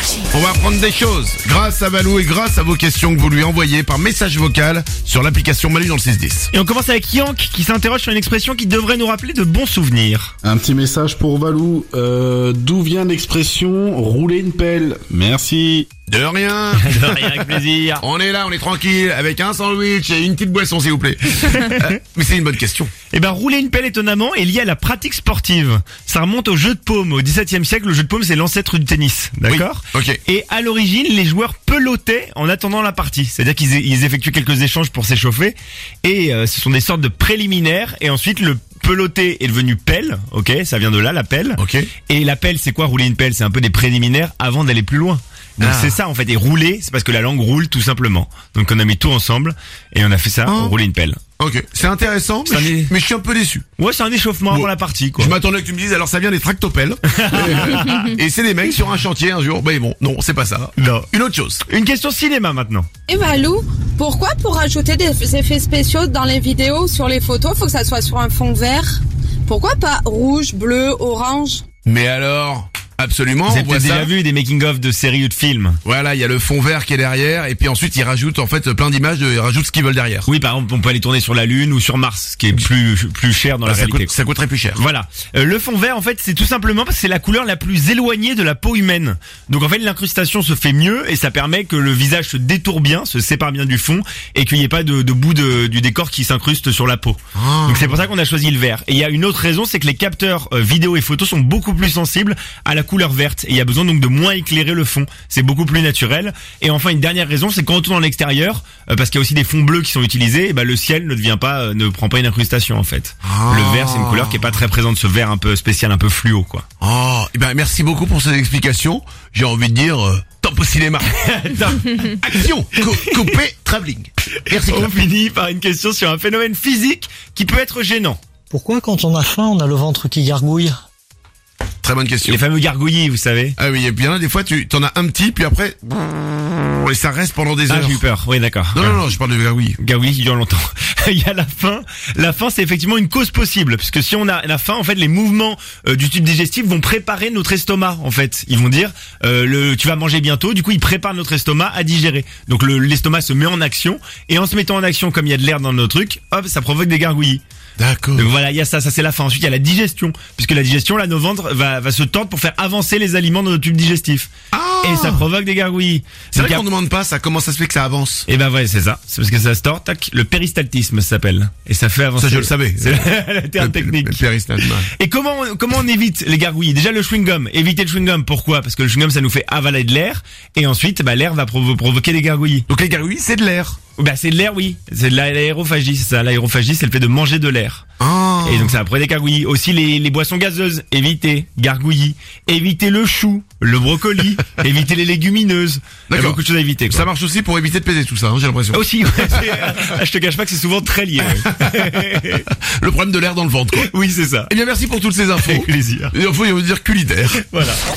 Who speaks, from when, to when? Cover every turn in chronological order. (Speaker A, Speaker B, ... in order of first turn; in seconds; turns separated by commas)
Speaker A: 0.3-6.5, Speaker B: 6.5-10.3, Speaker C: 10.4-15.9, Speaker A: 16.1-17.4, Speaker B: 16.8-18.0, Speaker A: 18.0-22.9, Speaker B: 23.1-51.2, Speaker A: 29.5-30.2, Speaker A: 41.6-41.9, Speaker A: 45.6-46.0, Speaker A: 50.5-50.8, Speaker A: 51.4-53.6, Speaker B: 52.5-52.9, Speaker B: 53.8-55.4, Speaker A: 54.5-61.6, Speaker B: 57.2-58.1, Speaker B: 60.8-61.1, Speaker B: 61.7-62.9, Speaker D: 63.1-71.6, Speaker A: 71.8-74.1, Speaker B: 73.5-75.8, Speaker A: 75.8-80.3, Speaker B: 80.2-84.1, Speaker A: 83.6-84.8, Speaker B: 84.7-116.6, Speaker A: 97.3-98.0, Speaker A: 113.2-114.6, Speaker A: 116.8-121.1, Speaker B: 121.0-123.1, Speaker A: 122.0-124.9, Speaker B: 124.5-128.2, Speaker E: 128.5-130.8, Speaker A: 131.8-132.4, Speaker B: 132.2-133.5, Speaker A: 133.6-138.0, Speaker B: 137.7-139.0, Speaker A: 138.7-139.8, Speaker B: 139.8-157.4, Speaker A: 157.8-158.3, Speaker B: 158.2-164.3, Speaker A: 164.5-165.2, Speaker B: 164.8-166.7, Speaker A: 166.3-168.3, Speaker B: 168.3-174.2, Speaker A: 172.2-174.9, Speaker B: 174.9-182.7, Speaker A: 182.7-183.8, Speaker B: 184.0-187.8, Speaker A: 188.0-188.8, Speaker B: 188.4-197.1, Speaker A: 196.1-199.8, Speaker B: 198.7-202.5, Speaker A: 201.4-203.9, Speaker B: 203.8-204.5, Speaker A: 204.5-207.4, Speaker B: 205.4-206.2, Speaker B: 207.4-207.8